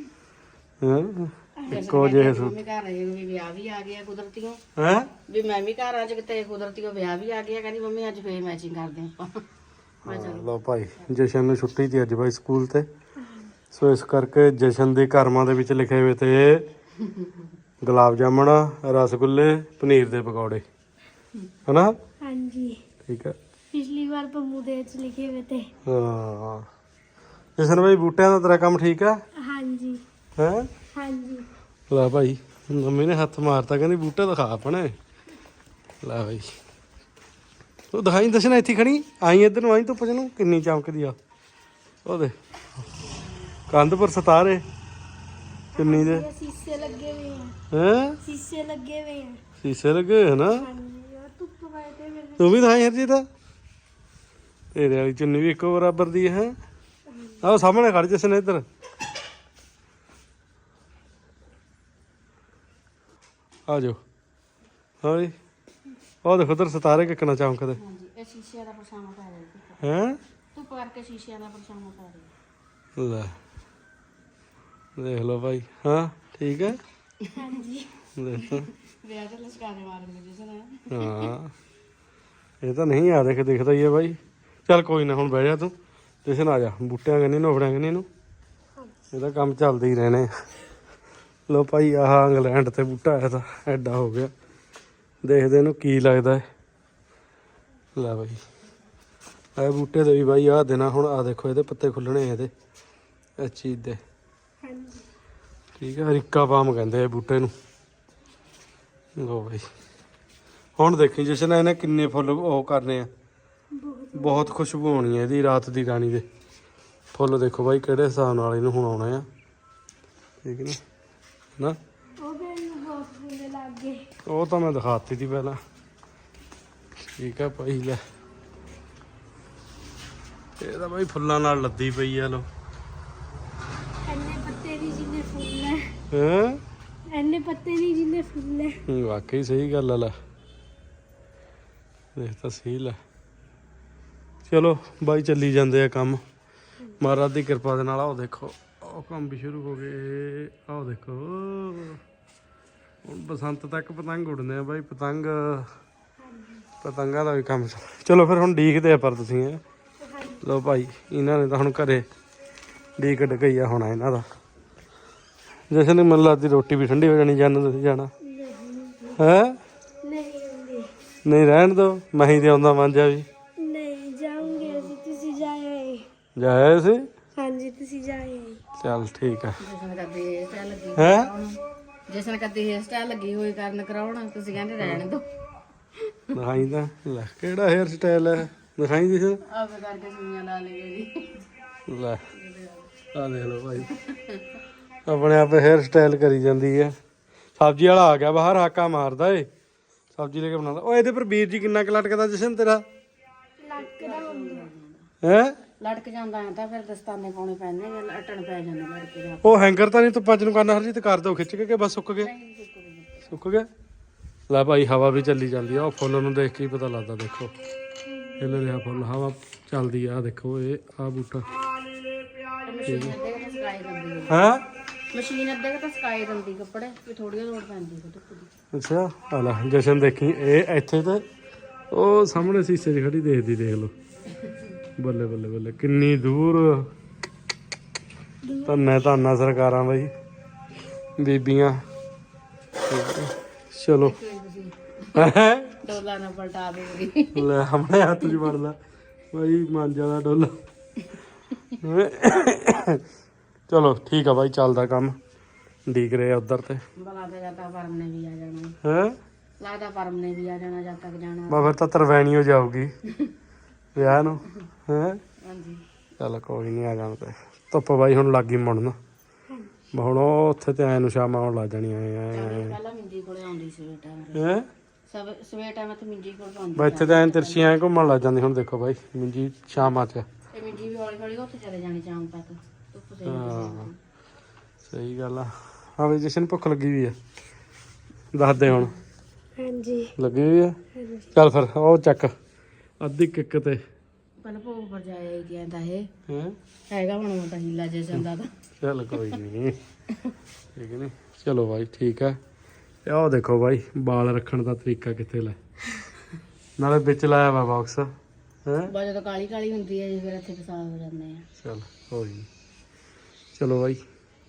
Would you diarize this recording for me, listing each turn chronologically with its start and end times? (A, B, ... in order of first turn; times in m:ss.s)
0:00.8-0:02.5 A
0:01.6-0:01.8 B
0:01.6-0:04.6 C
0:04.8-0:05.1 A
0:05.3-0:09.4 C
0:10.0-0:11.1 C
0:10.0-0:12.9 A
0:13.2-0:13.5 B
0:13.7-0:16.6 A
0:17.0-0:17.4 C
0:17.8-0:20.6 A
0:21.6-0:21.9 A
0:22.2-0:22.8 B
0:23.0-0:23.4 A
0:23.7-0:25.7 B
0:25.8-0:26.6 A
0:27.6-0:29.2 A
0:29.3-0:30.0 B
0:30.4-0:30.7 A
0:30.9-0:31.5 B
0:31.9-0:34.9 A
0:36.0-0:36.5 A
0:37.9-0:41.2 A
0:42.0-0:42.3 A
0:43.7-0:44.6 A
0:45.7-0:47.5 B
0:45.8-0:46.3 A
0:47.7-0:48.2 A
0:48.2-0:49.4 B
0:49.6-0:50.7 A
0:50.5-0:52.7 B
0:52.4-0:53.2 A
0:54.7-0:56.6 A
0:57.1-0:57.4 B
0:57.4-0:58.6 A
1:03.7-1:04.0 A
1:05.0-1:05.3 A
1:06.2-1:07.8 A
1:07.7-1:09.8 C
1:09.8-1:10.2 A
1:10.5-1:12.3 C
1:13.0-1:13.4 A
1:15.0-1:16.8 A
1:17.2-1:17.5 C
1:17.4-1:18.0 B
1:18.1-1:18.7 A
1:18.3-1:21.3 C
1:20.9-1:21.5 A
1:22.6-1:25.7 A
1:26.2-1:28.1 A
1:29.1-1:30.3 A
1:31.5-1:34.3 A
1:35.2-1:36.4 A
1:37.9-1:38.4 A
1:39.6-1:42.5 A
1:43.4-1:44.0 A
1:44.6-1:45.0 B
1:45.8-1:47.5 A
1:49.2-1:49.7 A
1:50.8-1:53.1 A
1:53.7-1:54.6 B
1:54.1-1:56.2 A
1:57.1-1:59.3 A
2:00.4-2:00.8 A
2:02.2-2:04.1 B
2:04.2-2:05.6 A
2:07.1-2:08.0 A
2:10.6-2:12.5 A
2:14.0-2:15.9 B
2:16.1-2:16.6 A
2:17.1-2:18.8 B
2:18.9-2:20.1 A
2:22.1-2:23.0 A
2:24.4-2:26.2 A
2:27.0-2:32.0 A
2:33.0-2:35.7 A
2:36.2-2:36.7 B
2:36.8-2:39.6 A
2:40.0-2:40.4 B
2:40.4-2:42.0 A
2:43.0-2:44.2 A
2:45.7-2:48.1 A
2:48.2-2:49.2 B
2:49.2-2:49.6 A
2:50.0-2:50.9 B
2:51.2-2:53.3 A
2:53.6-2:56.1 B
2:54.4-2:54.9 C
2:56.4-2:57.1 A
2:57.4-2:58.6 B
2:58.8-2:59.6 A
2:59.6-3:05.2 C
3:01.0-3:01.3 A
3:06.1-3:06.4 C
3:06.3-3:09.4 A
3:09.5-3:11.4 C
3:11.9-3:12.2 A
3:12.3-3:12.9 C
3:13.1-3:13.9 A
3:13.8-3:14.6 C
3:15.0-3:17.0 A
3:17.6-3:19.5 A
3:20.1-3:22.8 A
3:23.6-3:24.7 B
3:23.8-3:25.1 C
3:25.2-3:25.6 A
3:25.8-3:29.6 C
3:29.4-3:32.3 A
3:32.2-3:33.3 C
3:33.2-3:33.7 A
3:34.5-3:37.5 A
3:38.1-3:38.4 B
3:38.4-3:41.5 A
3:42.6-3:44.5 C
3:42.8-3:43.2 A
3:44.3-3:44.6 A
3:45.1-3:48.5 C
3:48.7-3:51.2 A
3:51.9-3:53.9 A
3:55.0-3:56.9 A
3:58.4-3:58.8 B
3:58.6-4:00.1 A
4:01.2-4:01.8 A
4:02.8-4:04.2 A
4:04.0-4:07.4 C
4:05.1-4:05.8 A
4:07.3-4:08.8 A
4:09.3-4:10.6 A
4:11.8-4:13.0 A
4:13.7-4:15.2 A
4:15.9-4:16.8 A
4:17.0-4:18.8 C
4:18.8-4:19.2 A
4:19.6-4:21.8 C
4:21.5-4:22.9 A
4:23.9-4:25.2 A
4:25.4-4:25.8 C
4:26.2-4:29.0 A
4:29.9-4:32.7 A
4:32.3-4:34.4 C
4:34.3-4:34.7 A
4:35.1-4:37.8 C
4:36.7-4:40.2 A
4:40.5-4:44.0 C
4:43.2-4:43.9 A
4:44.8-4:47.2 A
4:48.3-4:48.9 A
4:49.6-4:50.1 B
4:50.2-4:50.8 A
4:50.9-4:51.3 B
4:51.3-4:52.3 A
4:53.0-4:53.8 A
4:54.4-4:56.1 C
4:56.3-4:56.6 A
4:56.9-4:58.5 C
4:58.8-4:59.8 A
4:59.1-4:59.4 C
5:00.7-5:02.4 A
5:03.0-5:05.6 A
5:06.8-5:08.1 A
5:08.6-5:08.9 A
5:08.8-5:11.5 C
5:11.6-5:12.5 A
5:13.5-5:14.0 A